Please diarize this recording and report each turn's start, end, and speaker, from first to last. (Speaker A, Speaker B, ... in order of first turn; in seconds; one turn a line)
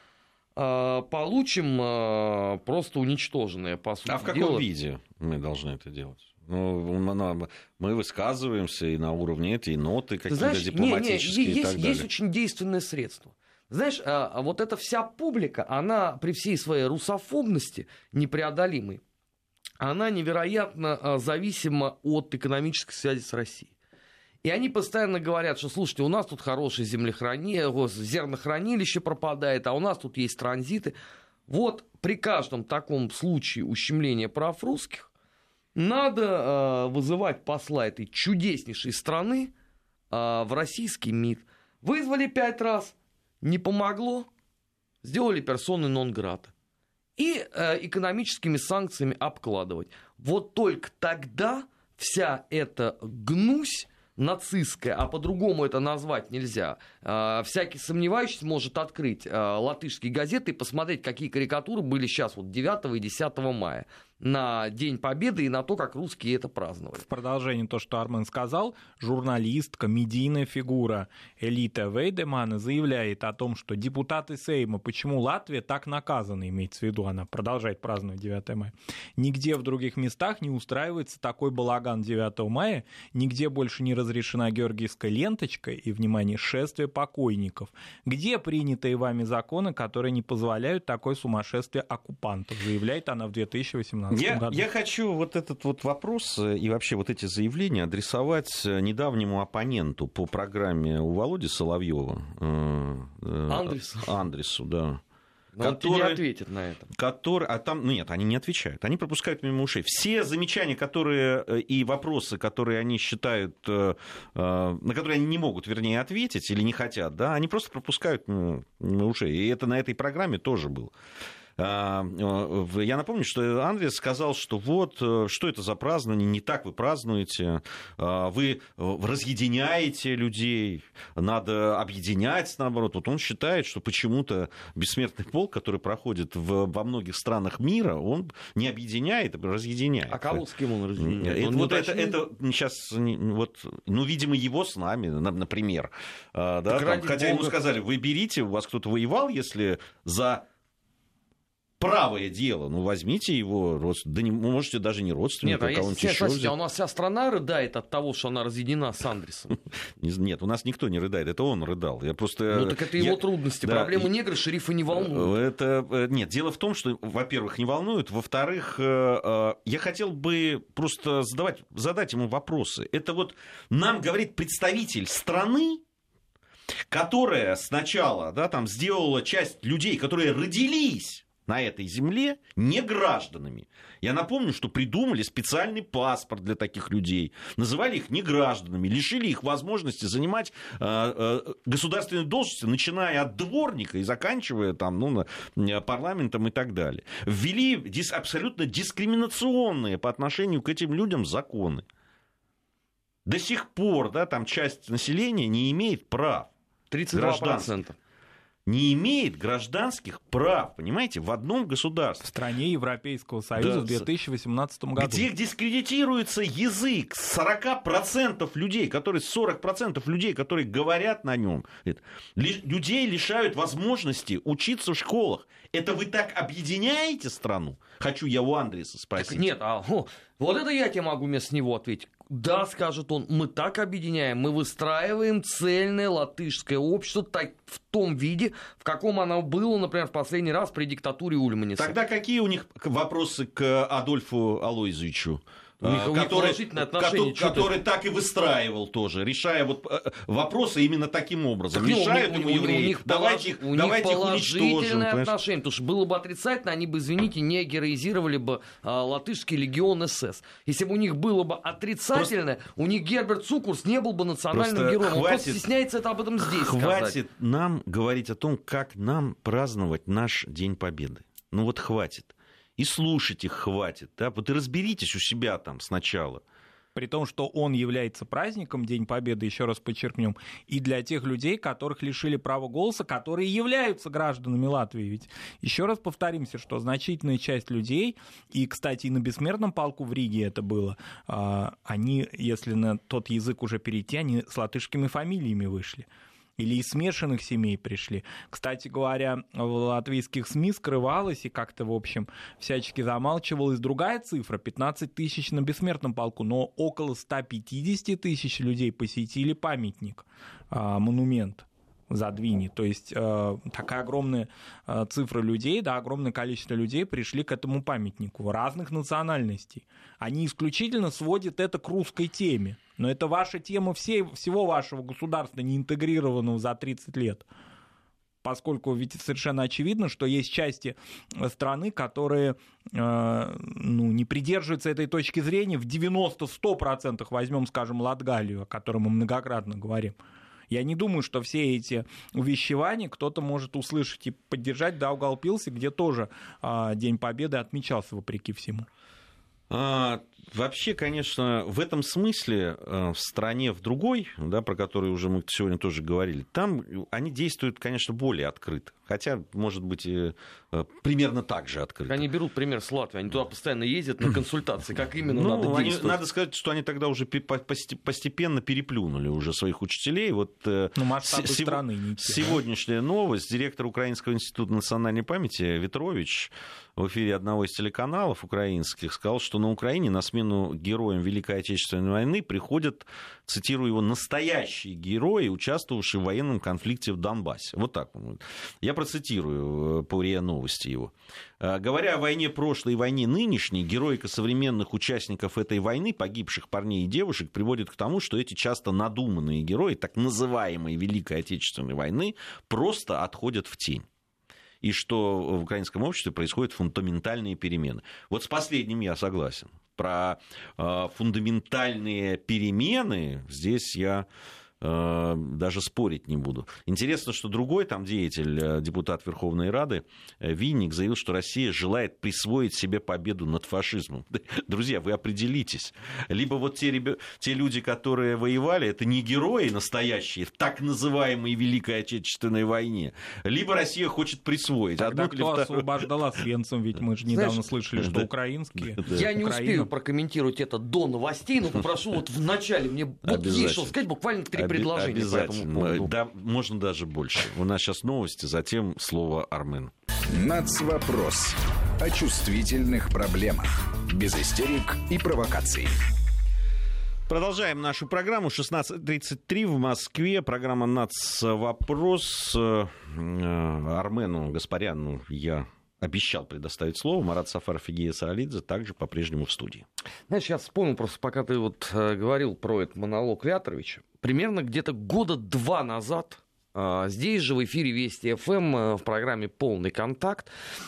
Speaker A: 0.6-4.6
Speaker B: 4.0-12.1
Speaker A: 10.3-19.0
Speaker A: 19.8-23.7
Speaker A: 24.4-30.9
Speaker A: 31.5-35.1
Speaker A: 35.8-39.5
Speaker A: 40.1-44.3
Speaker A: 45.0-46.5
Speaker A: 47.2-67.0
Speaker C: 67.0-94.6
Speaker B: 94.1-105.0
Speaker A: 103.5-104.1
Speaker A: 105.5-106.9
Speaker B: 105.6-106.2
Speaker B: 106.9-120.9
Speaker B: 121.6-140.4
Speaker A: 140.1-142.2
Speaker B: 141.0-150.4
Speaker A: 146.7-147.6
Speaker B: 151.8-156.5
Speaker A: 155.4-159.6
Speaker B: 160.0-164.1
Speaker A: 162.5-165.3
Speaker B: 164.9-175.8
Speaker B: 176.9-201.8
Speaker B: 203.2-206.5
Speaker A: 206.9-207.9
Speaker B: 207.1-207.8
Speaker B: 208.7-212.3
Speaker C: 212.2-215.3
Speaker B: 213.6-214.1
Speaker B: 215.0-229.5
Speaker A: 229.2-241.9
Speaker B: 241.8-255.3
Speaker A: 245.8-247.7
Speaker A: 251.7-267.2
Speaker B: 264.5-265.6
Speaker B: 266.4-276.4
Speaker C: 276.9-296.1
Speaker C: 296.6-327.4
Speaker C: 328.4-340.1
Speaker C: 340.7-348.9
Speaker B: 349.7-362.2
Speaker A: 362.1-366.2
Speaker B: 365.3-404.1
Speaker C: 370.9-372.6
Speaker B: 404.8-414.2
Speaker B: 414.8-436.1
Speaker C: 435.0-439.9
Speaker A: 437.3-437.6
Speaker B: 437.9-439.2
Speaker A: 439.1-446.1
Speaker B: 443.2-444.0
Speaker B: 444.5-449.9
Speaker D: 450.3-455.9
Speaker B: 457.3-469.8
Speaker A: 470.3-480.5